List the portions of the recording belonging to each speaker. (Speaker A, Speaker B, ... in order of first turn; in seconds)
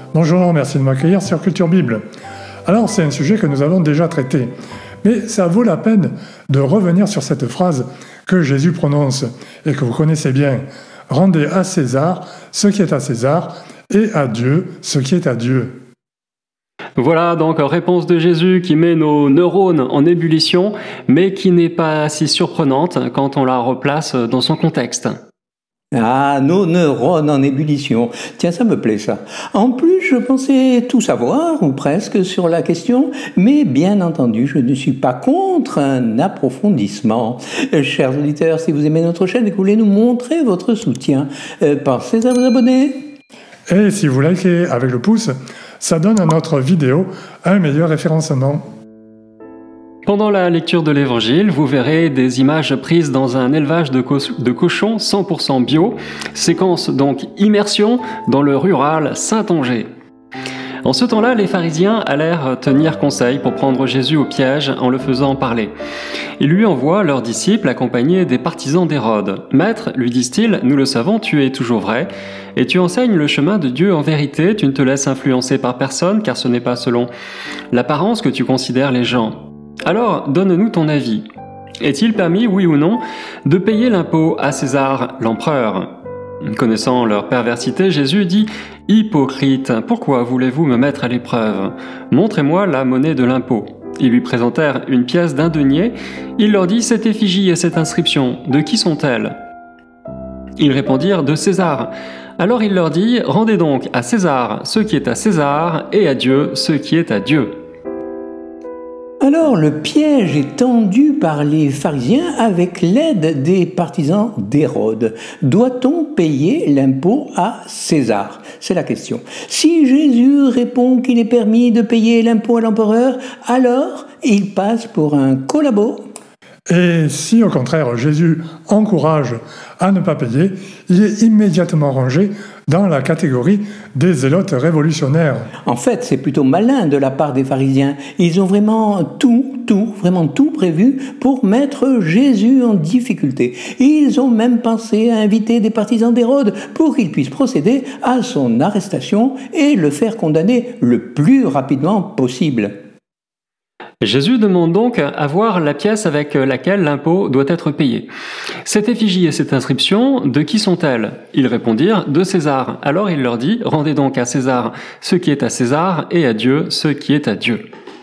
Speaker A: 0.1-2.0, 2.6-4.5, 5.0-15.8, 43.7-48.6, 126.7-135.5
Speaker B: 17.0-25.2, 50.0-59.9, 60.8-65.7, 66.4-77.1, 77.7-81.2, 81.8-85.9, 86.5-99.3, 100.6-107.6, 154.0-158.1, 158.6-167.6
Speaker C: 25.9-43.0, 109.2-126.0, 135.7-152.7